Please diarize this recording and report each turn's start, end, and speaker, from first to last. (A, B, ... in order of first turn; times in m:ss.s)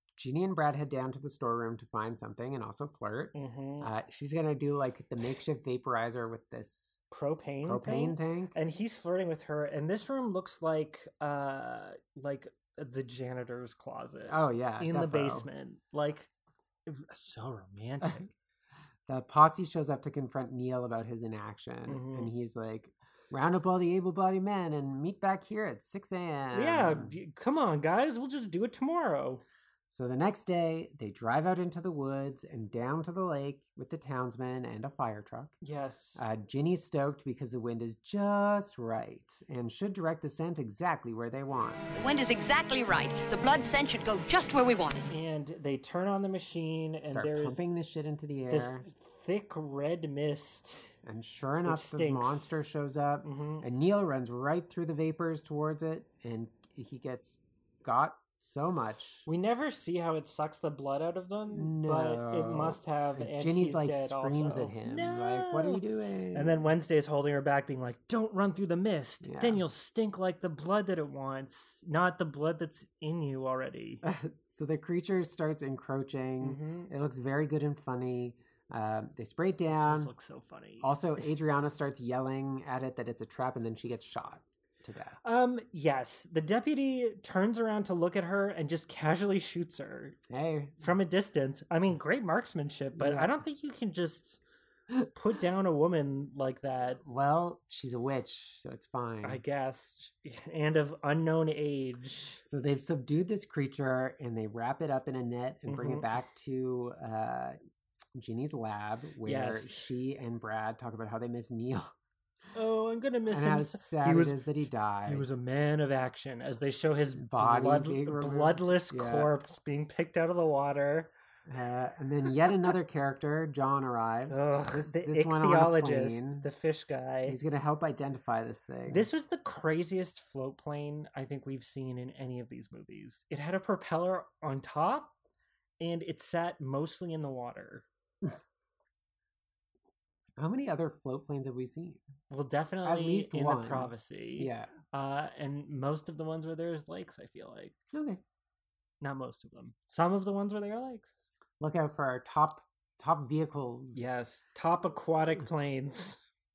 0:00.2-0:07.0 A
0:03.3-0:03.9 B
0:07.1-0:16.3 B
0:07.6-0:08.6 A
0:14.3-0:15.5 A
0:16.9-0:18.3 B
0:19.1-0:27.2 A
0:21.9-0:22.3 B
0:26.5-0:29.4 B
0:29.9-0:35.6 A
0:35.6-0:36.3 B
0:36.2-0:41.9 A
0:42.0-0:45.0 C
0:45.1-0:47.6 B
0:47.0-0:48.9 A
0:48.5-0:51.0 B
0:51.0-0:59.3 A
0:51.6-0:52.5 B
0:53.2-0:53.6 B
0:59.3-1:05.8 B
1:01.5-1:06.7 A
1:06.3-1:14.0 B
1:09.2-1:09.6 A
1:14.0-1:20.1 A
1:16.4-1:16.9 B
1:19.7-1:21.0 B
1:20.8-1:25.2 A
1:25.2-1:30.2 B
1:30.3-1:30.8 A
1:30.8-1:34.4 B
1:33.0-1:33.4 A
1:35.1-1:37.0 B
1:37.0-1:39.4 A
1:39.2-1:42.4 B
1:42.4-1:47.6 A
1:45.7-1:46.1 B
1:48.2-1:51.9 A
1:49.2-1:49.9 B
1:52.6-1:54.4 B
1:53.3-1:55.3 A
1:55.0-2:01.1 B
1:57.2-1:59.3 A
2:01.5-2:06.5 A
2:04.3-2:07.4 B
2:07.3-2:09.1 A
2:08.9-2:15.1 B
2:15.8-2:17.9 B
2:20.4-2:22.0 A
2:22.3-2:27.8 B
2:22.8-2:24.7 A
2:27.9-2:28.2 A
2:29.0-2:31.2 B
2:31.6-2:34.1 A
2:34.0-2:36.2 B